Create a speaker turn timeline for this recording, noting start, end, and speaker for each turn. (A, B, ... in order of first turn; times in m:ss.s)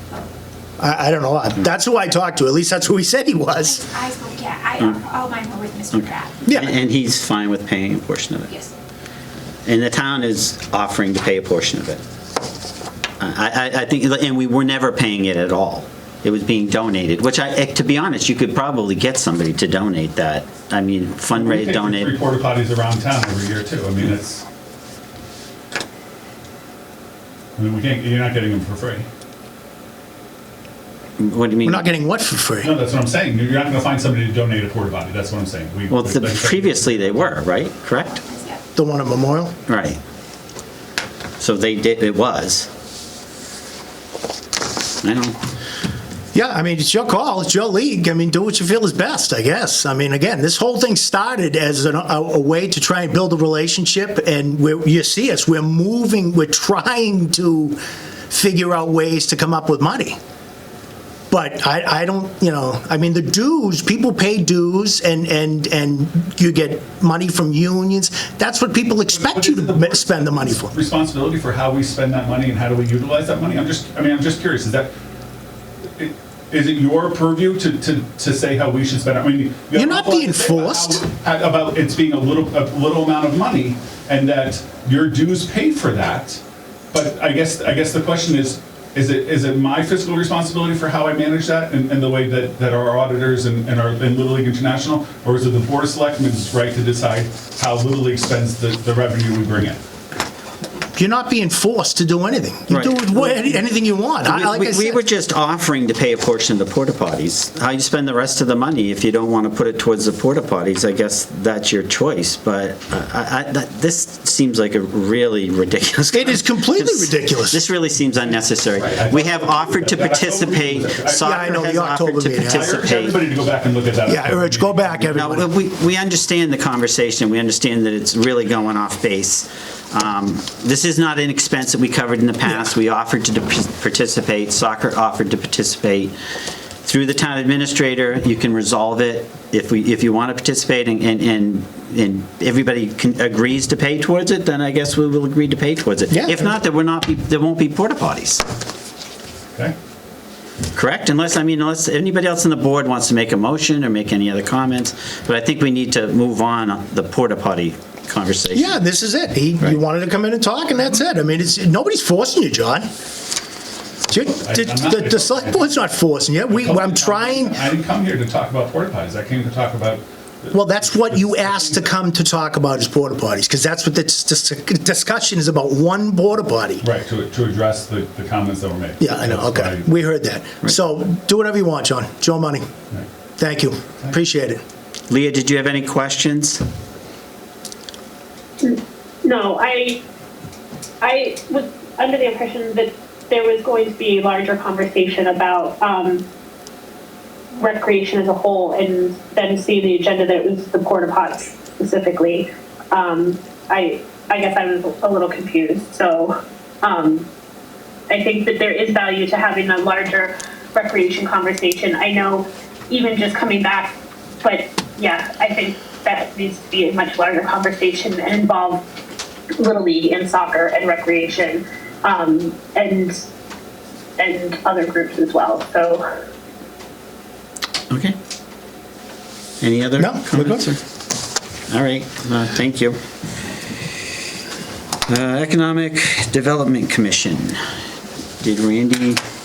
0:00.8-0:03.8 A
0:03.6-0:06.4 B
0:05.9-0:08.5 C
0:06.4-0:06.8 A
0:08.5-0:08.7 B
0:09.6-0:12.0 C
0:13.2-0:22.1 C
0:21.3-0:24.4 D
0:27.6-0:29.0 D
0:31.2-0:31.7 C
0:31.6-0:32.7 A
0:32.6-0:37.3 D
0:35.9-0:38.1 C
0:38.1-0:38.6 B
0:38.8-0:39.5 A
0:39.7-0:40.0 C
0:41.4-0:42.7 C
0:45.0-0:45.4 C
0:46.3-0:57.8 A
0:58.3-1:00.2 A
1:01.3-1:10.7 A
1:09.1-1:14.9 D
1:16.0-1:26.4 D
1:19.7-1:21.0 A
1:26.9-1:39.8 D
1:41.0-1:45.0 A
1:42.7-1:43.1 C
1:44.3-2:03.1 C
1:56.1-1:57.6 A
1:58.8-2:01.7 D
2:01.2-2:02.8 A
2:02.4-2:05.3 D
2:04.1-2:05.5 A
2:05.2-2:16.1 C
2:16.8-2:28.4 C
2:26.1-2:26.5 A
2:30.7-2:38.8 C
2:38.5-2:42.9 A
2:44.1-2:47.6 A
2:44.2-2:45.7 D
2:46.5-2:51.9 D
2:50.5-2:56.8 A
2:56.8-2:59.9 D
2:59.0-3:02.6 A
3:03.4-3:04.6 A
3:05.1-3:06.6 C
3:08.6-3:10.0 E
3:11.0-3:16.2 E
3:17.6-3:27.2 E
3:28.1-3:38.8 E
3:39.6-3:43.2 E
3:44.2-3:46.0 E
3:47.9-3:48.1 C
3:49.6-3:50.8 C
3:50.0-3:50.7 A
3:51.7-3:53.0 C
3:55.1-3:57.6 C
3:58.4-3:59.2 C